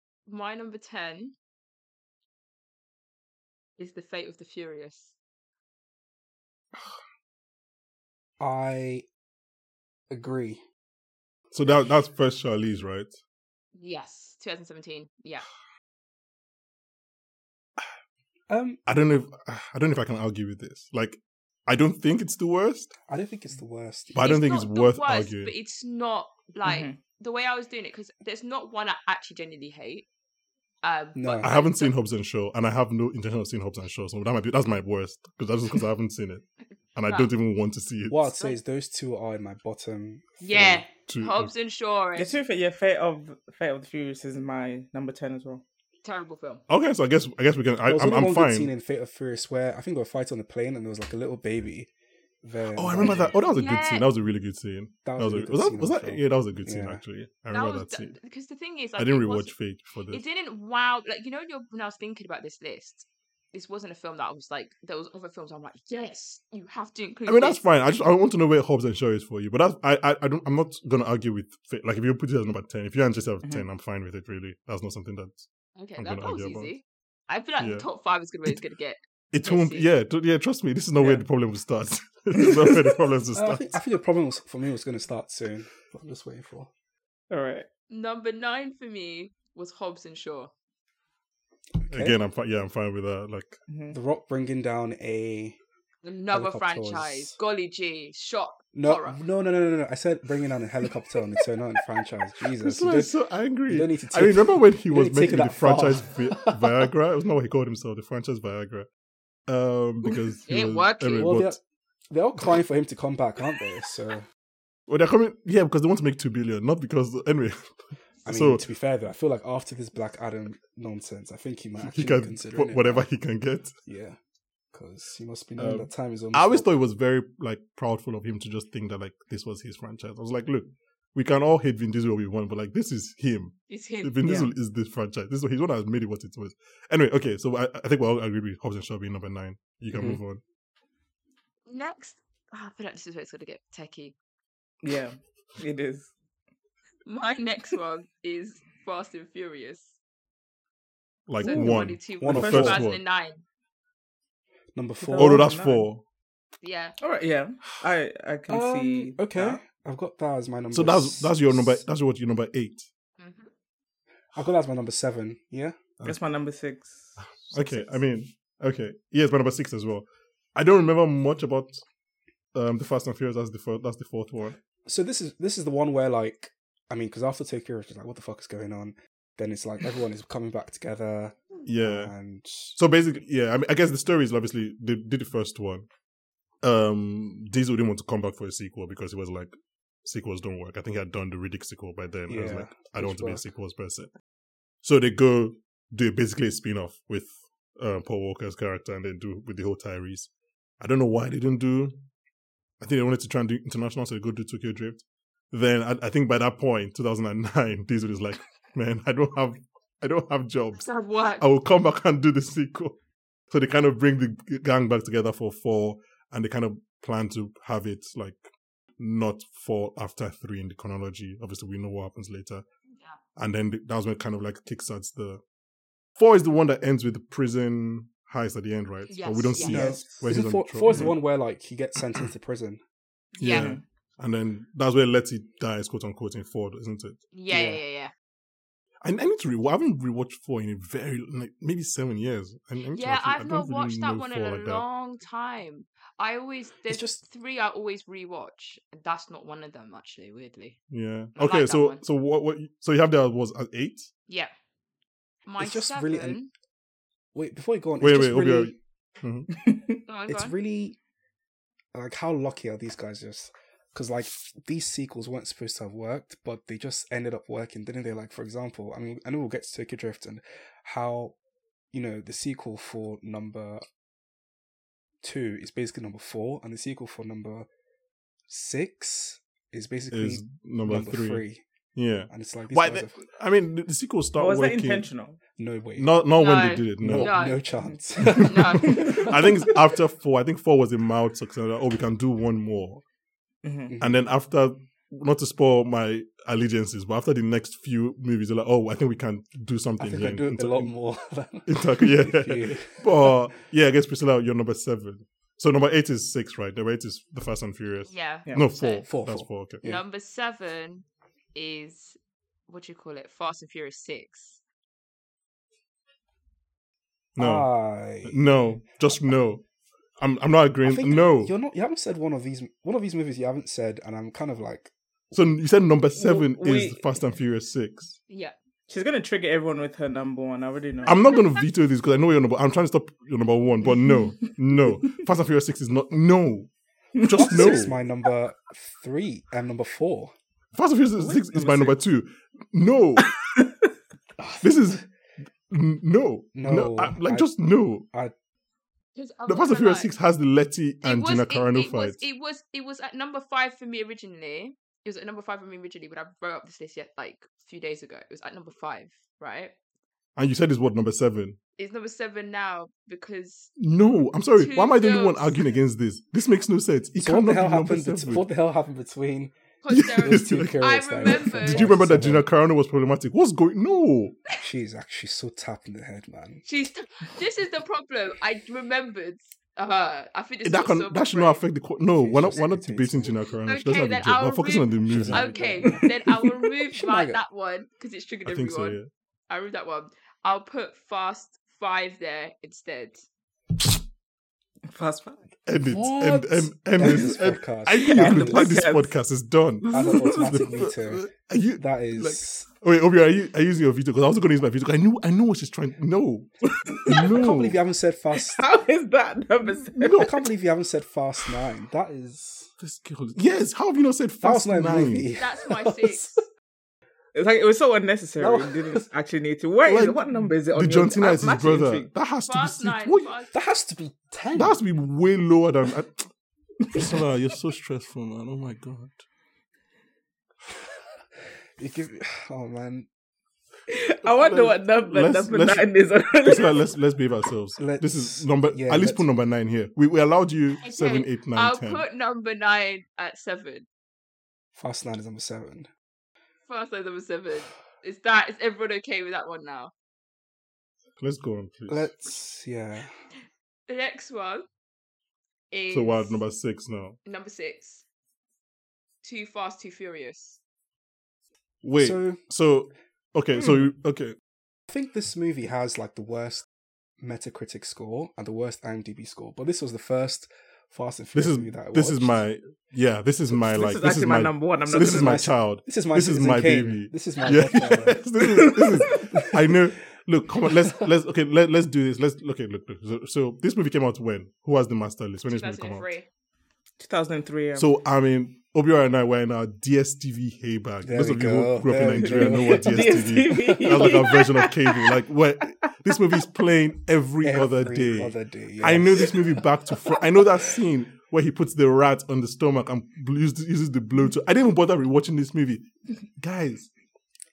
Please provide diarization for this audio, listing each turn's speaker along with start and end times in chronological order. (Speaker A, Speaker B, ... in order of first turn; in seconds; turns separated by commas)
Speaker A: 0.3-1.3, Speaker A: 3.8-5.1, Speaker B: 8.4-9.1, Speaker B: 10.1-10.6, Speaker C: 11.5-13.2, Speaker A: 13.7-15.4, Speaker B: 18.5-18.8, Speaker C: 18.9-22.9, Speaker B: 23.1-24.2, Speaker C: 24.1-25.5, Speaker A: 24.2-30.1, Speaker D: 26.6-27.0, Speaker A: 30.8-31.9, Speaker B: 31.1-31.5, Speaker C: 31.4-38.3, Speaker A: 37.0-37.3, Speaker B: 38.1-40.8, Speaker A: 40.4-42.4, Speaker C: 41.1-41.5, Speaker D: 42.1-45.6, Speaker A: 46.0-46.6, Speaker C: 46.7-48.7, Speaker B: 47.8-51.9, Speaker B: 52.4-53.4, Speaker C: 52.7-58.2, Speaker A: 53.1-54.1, Speaker B: 55.0-57.0, Speaker A: 57.5-59.5, Speaker C: 59.0-60.2, Speaker A: 60.1-67.7, Speaker C: 67.3-76.7, Speaker A: 75.8-79.9, Speaker C: 77.6-77.8, Speaker C: 79.3-83.8, Speaker D: 81.0-81.2, Speaker D: 82.3-82.9, Speaker B: 83.3-86.7, Speaker D: 87.3-87.7, Speaker A: 87.9-90.5, Speaker B: 91.8-92.2, Speaker C: 91.9-93.6, Speaker D: 93.7-94.0, Speaker B: 93.9-95.6, Speaker A: 96.0-99.2, Speaker B: 96.3-97.4, Speaker B: 98.7-103.1, Speaker C: 102.6-108.9, Speaker B: 103.7-106.9, Speaker C: 109.5-111.5, Speaker A: 110.5-111.3, Speaker B: 111.2-111.6, Speaker B: 112.1-114.2, Speaker C: 114.9-118.6, Speaker B: 118.2-123.1, Speaker C: 121.8-123.8, Speaker B: 123.8-124.2, Speaker B: 124.7-126.7, Speaker C: 125.6-140.4, Speaker A: 133.7-134.2, Speaker B: 139.9-140.2, Speaker A: 141.7-144.1, Speaker D: 144.8-146.1, Speaker A: 147.1-149.9, Speaker C: 151.3-153.0, Speaker A: 151.4-153.4, Speaker B: 151.4-152.8, Speaker D: 152.4-152.7, Speaker B: 154.7-155.5, Speaker D: 155.0-155.9, Speaker C: 155.2-156.0, Speaker A: 156.6-156.9, Speaker D: 157.0-159.6, Speaker B: 158.5-161.8, Speaker C: 160.7-162.9, Speaker A: 163.2-163.5, Speaker B: 164.3-165.8, Speaker D: 166.0-167.1, Speaker C: 167.2-171.8, Speaker B: 167.5-168.0, Speaker C: 172.5-174.6, Speaker B: 174.8-182.8, Speaker C: 181.7-182.1, Speaker C: 182.8-185.9, Speaker C: 186.6-189.5, Speaker C: 190.0-194.1, Speaker B: 192.3-193.5, Speaker C: 194.8-201.9, Speaker C: 202.8-210.9, Speaker A: 210.8-211.4, Speaker C: 211.4-213.0, Speaker C: 213.5-222.6, Speaker C: 223.3-225.4, Speaker C: 226.2-231.2, Speaker A: 229.1-230.0, Speaker B: 229.6-232.8, Speaker A: 233.3-233.8, Speaker C: 233.4-237.2, Speaker D: 233.4-233.8, Speaker A: 237.3-238.1, Speaker B: 237.5-237.8, Speaker C: 239.0-244.8, Speaker A: 242.9-250.8, Speaker B: 246.9-247.2, Speaker C: 250.9-254.1, Speaker A: 251.3-252.0, Speaker A: 255.4-256.5, Speaker B: 255.6-256.4, Speaker B: 257.3-258.7, Speaker C: 258.0-259.5, Speaker D: 259.6-259.9, Speaker A: 260.1-260.5, Speaker B: 260.3-261.0, Speaker B: 261.9-271.4, Speaker B: 271.9-273.8, Speaker B: 275.2-277.7, Speaker B: 278.5-281.6, Speaker C: 280.1-281.4, Speaker C: 281.9-285.1, Speaker B: 282.3-283.2, Speaker D: 284.4-285.4, Speaker B: 285.6-286.1, Speaker C: 285.9-287.4, Speaker A: 286.4-287.6, Speaker B: 287.0-289.7, Speaker C: 288.2-293.0, Speaker A: 288.4-289.2, Speaker D: 288.9-289.7, Speaker D: 293.6-293.9, Speaker C: 294.0-300.9, Speaker B: 300.0-303.4, Speaker C: 301.6-309.8, Speaker A: 308.1-309.1, Speaker B: 309.1-310.0, Speaker A: 309.8-314.6, Speaker C: 317.4-319.6, Speaker B: 317.4-318.4, Speaker C: 320.2-321.5, Speaker B: 320.8-324.9, Speaker C: 325.3-328.2, Speaker D: 326.2-327.1, Speaker A: 328.3-328.5, Speaker D: 328.9-331.2, Speaker C: 331.0-338.0, Speaker A: 331.1-331.4, Speaker D: 333.8-335.0, Speaker D: 337.1-337.9, Speaker B: 337.3-340.3, Speaker C: 340.7-343.3, Speaker B: 341.2-341.9, Speaker D: 341.5-341.9, Speaker D: 343.2-343.7, Speaker B: 344.4-344.7, Speaker C: 344.6-345.0, Speaker C: 345.7-348.0, Speaker B: 346.6-347.5, Speaker A: 349.1-350.1, Speaker C: 349.5-352.2, Speaker A: 351.0-359.7, Speaker C: 360.4-361.6, Speaker A: 361.8-363.7, Speaker C: 363.8-368.4, Speaker A: 364.6-365.6, Speaker B: 367.2-372.5, Speaker A: 369.8-371.9, Speaker C: 369.9-374.4, Speaker B: 374.6-376.6, Speaker A: 376.6-381.6, Speaker C: 380.6-386.0, Speaker B: 382.1-383.4, Speaker A: 383.7-393.2, Speaker B: 385.0-386.1, Speaker B: 386.9-387.4, Speaker C: 388.4-389.1, Speaker D: 394.9-395.4, Speaker C: 395.6-407.8, Speaker B: 395.8-398.8, Speaker D: 398.0-399.1, Speaker D: 399.8-400.9, Speaker B: 399.9-402.7, Speaker D: 406.8-407.3, Speaker B: 407.1-408.6, Speaker D: 408.3-410.4, Speaker C: 410.0-410.4, Speaker B: 410.1-412.7, Speaker C: 412.8-415.3, Speaker B: 414.4-416.4, Speaker A: 415.4-416.4, Speaker D: 417.3-422.1, Speaker B: 418.4-419.0, Speaker C: 419.9-423.3, Speaker A: 422.4-423.5, Speaker B: 423.5-424.8, Speaker C: 424.5-426.3, Speaker D: 426.8-427.2, Speaker C: 426.9-429.2, Speaker B: 431.8-433.1, Speaker D: 433.9-436.9, Speaker C: 434.2-435.9, Speaker C: 436.4-442.0, Speaker B: 437.8-439.2, Speaker A: 440.8-443.9, Speaker B: 444.7-445.9, Speaker A: 446.6-449.9, Speaker C: 451.2-452.1, Speaker B: 451.9-453.1, Speaker A: 453.9-454.7, Speaker A: 455.7-456.4, Speaker C: 455.9-457.2, Speaker A: 457.2-458.0, Speaker A: 459.2-460.6, Speaker C: 461.8-464.4, Speaker B: 462.0-462.4, Speaker B: 464.9-466.6, Speaker B: 467.2-472.4, Speaker C: 471.3-486.1, Speaker D: 473.6-475.5, Speaker B: 474.9-478.3, Speaker D: 478.4-479.4, Speaker B: 479.1-479.8, Speaker B: 480.7-481.0, Speaker A: 485.5-486.3, Speaker D: 487.0-487.9, Speaker C: 487.7-505.9, Speaker B: 491.0-494.4, Speaker D: 492.2-495.2, Speaker B: 497.4-499.6, Speaker C: 506.4-506.9